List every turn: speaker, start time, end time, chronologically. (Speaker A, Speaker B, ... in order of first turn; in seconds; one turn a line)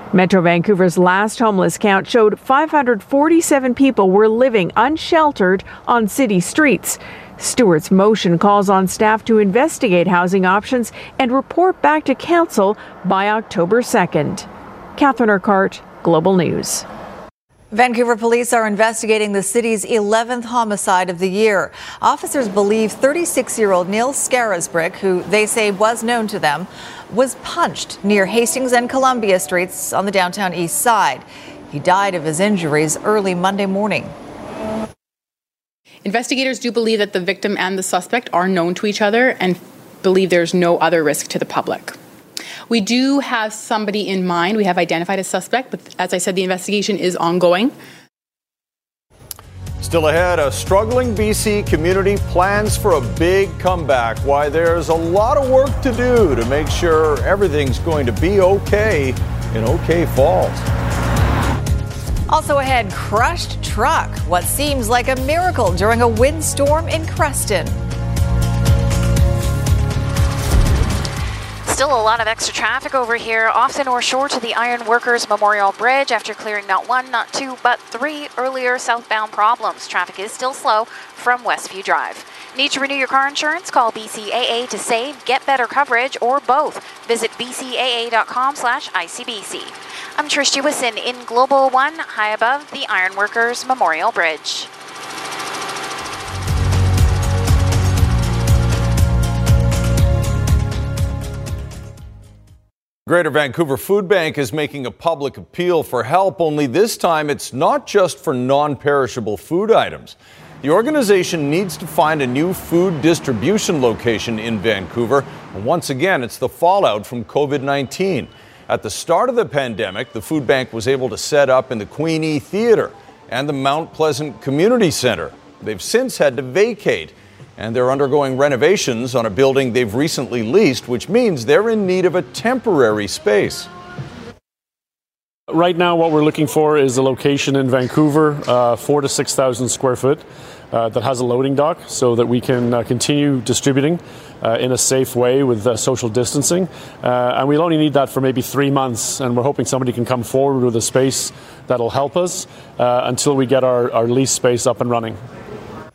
Speaker A: 0.1-16.9
Speaker B: 17.7-34.1
Speaker C: 36.1-41.9
Speaker C: 42.7-47.7
Speaker D: 49.8-60.6
Speaker B: 62.3-67.8
Speaker E: 71.7-94.7
Speaker D: 103.1-133.7
Speaker F: 135.5-155.2